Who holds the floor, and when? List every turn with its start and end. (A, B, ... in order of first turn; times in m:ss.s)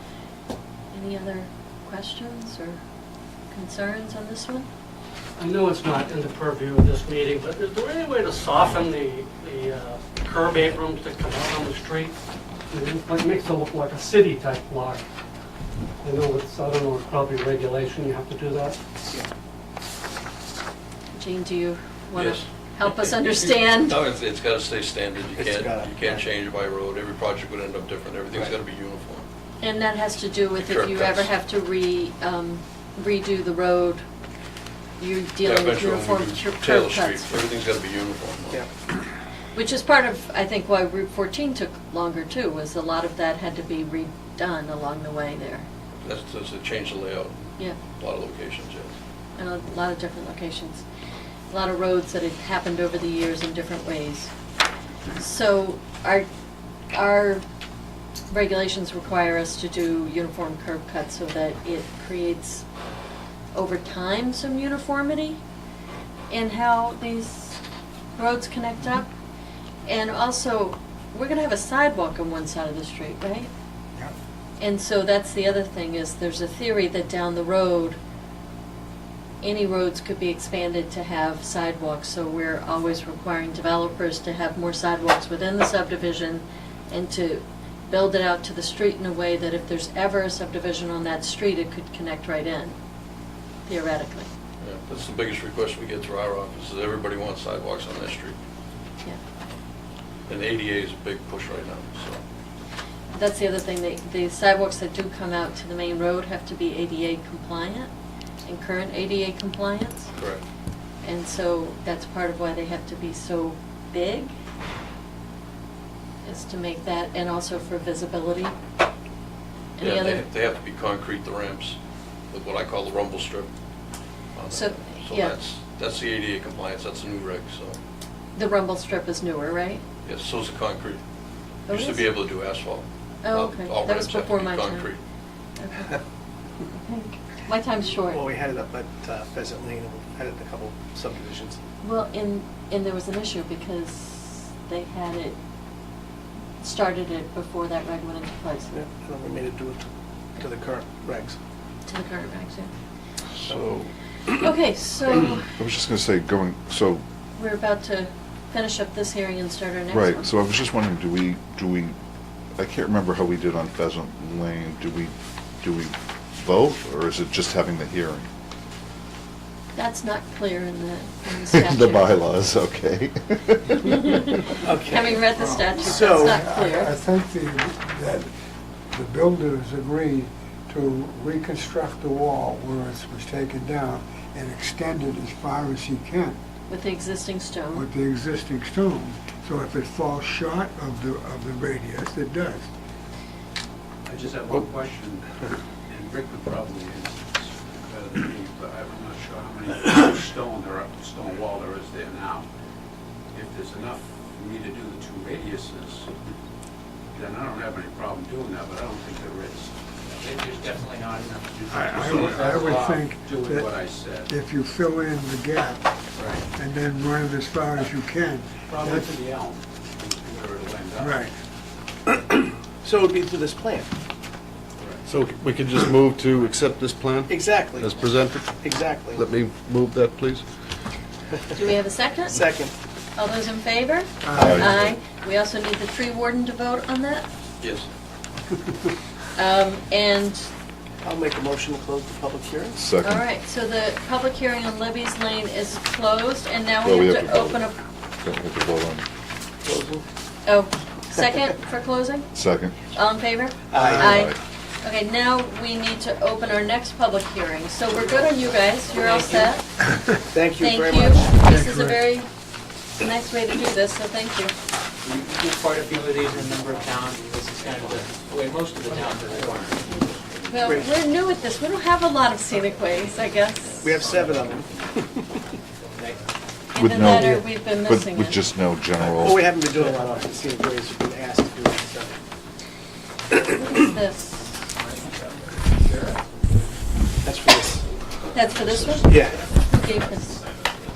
0:00.9-0:02.8 A
0:03.5-0:04.7 A
0:05.4-0:12.1 B
0:12.7-0:15.0 B
0:16.0-0:18.8 B
0:21.1-0:24.0 A
0:22.2-0:22.5 C
0:23.6-0:29.2 C
0:25.4-0:26.2 D
0:29.6-0:34.0 A
0:30.6-0:31.3 C
0:35.0-0:37.4 A
0:35.4-0:38.6 C
0:39.5-0:45.7 A
0:46.0-0:49.0 C
0:49.4-0:50.8 A
0:51.5-0:54.3 A
0:55.2-0:56.3 A
0:56.9-0:57.4 A
0:58.3-1:02.6 A
1:03.5-1:05.4 A
1:06.3-1:07.6 A
1:08.2-1:09.1 A
1:09.8-1:13.5 A
1:14.6-1:18.0 A
1:19.4-1:32.8 A
1:33.7-1:34.3 A
1:34.6-1:38.3 C
1:40.3-1:42.2 C
1:43.1-1:47.9 A
1:48.4-1:50.1 A
1:50.1-1:50.4 C
1:51.0-1:54.3 A
1:56.2-1:58.5 A
1:59.8-2:00.3 A
1:59.8-2:01.8 C
2:02.3-2:03.5 C
2:04.3-2:07.8 C
2:04.5-2:05.3 A
2:08.4-2:09.8 A
2:10.0-2:11.0 C
2:11.7-2:12.1 A
2:11.7-2:15.0 C
2:13.2-2:14.9 A
2:15.6-2:15.9 A
2:16.7-2:18.2 A
2:18.0-2:21.6 D
2:21.8-2:25.4 A
2:26.6-2:28.8 A
2:28.7-2:31.4 D
2:31.8-2:32.7 A
2:33.5-2:33.8 D
2:34.4-2:35.5 A
2:35.6-2:37.0 E
2:37.4-2:40.3 A
2:39.9-2:42.0 E
2:42.6-2:48.3 E
2:49.7-2:52.1 A
2:51.5-2:54.3 E
2:54.6-2:55.2 D
2:54.7-2:56.9 A
2:55.3-2:58.3 F
2:55.8-2:56.4 D
2:58.9-3:06.4 F
3:06.7-3:07.9 A
3:07.7-3:12.7 F
3:14.0-3:15.4 G
3:15.9-3:22.4 G
3:23.3-3:26.1 G
3:27.1-3:30.3 G
3:30.1-3:33.1 H
3:31.7-3:33.7 F
3:32.0-3:34.3 G
3:34.3-3:35.9 F
3:36.2-3:36.4 G
3:36.5-3:39.2 F
3:38.7-3:41.2 G
3:41.0-3:41.3 F
3:42.8-3:43.9 D
3:44.8-3:45.1 G
3:45.1-3:50.4 I
3:47.3-3:49.2 D
3:51.5-3:52.4 A
3:52.3-3:52.7 D
3:53.2-3:57.3 A
3:54.2-3:54.9 F
3:54.3-3:54.8 E
3:57.6-3:57.9 C
3:59.4-4:00.5 A
4:01.0-4:02.8 D
4:02.8-4:03.2 E
4:03.0-4:07.8 A
4:06.8-4:07.6 E
4:08.2-4:09.0 E
4:09.6-4:10.0 D
4:10.4-4:12.3 A
4:12.3-4:12.8 E
4:12.8-4:19.8 A
4:13.7-4:14.0 D
4:13.7-4:14.3 F
4:14.0-4:14.4 E
4:17.9-4:19.5 H
4:20.3-4:21.4 D
4:20.6-4:22.3 A
4:21.4-4:22.0 F
4:23.0-4:24.5 A
4:25.0-4:31.6 H
4:26.3-4:27.0 G
4:27.6-4:28.0 G
4:28.9-4:29.4 G
4:29.9-4:33.8 A
4:30.6-4:30.9 D
4:32.5-4:36.4 H
4:33.8-4:35.3 D
4:36.7-4:38.4 A
4:36.7-4:39.4 E
4:39.0-4:42.2 D
4:39.6-4:40.5 H
4:43.4-4:44.7 A
4:44.8-4:46.2 H
4:47.2-4:47.8 D
4:48.3-4:50.4 A
4:48.5-4:50.4 H
4:49.0-4:49.4 D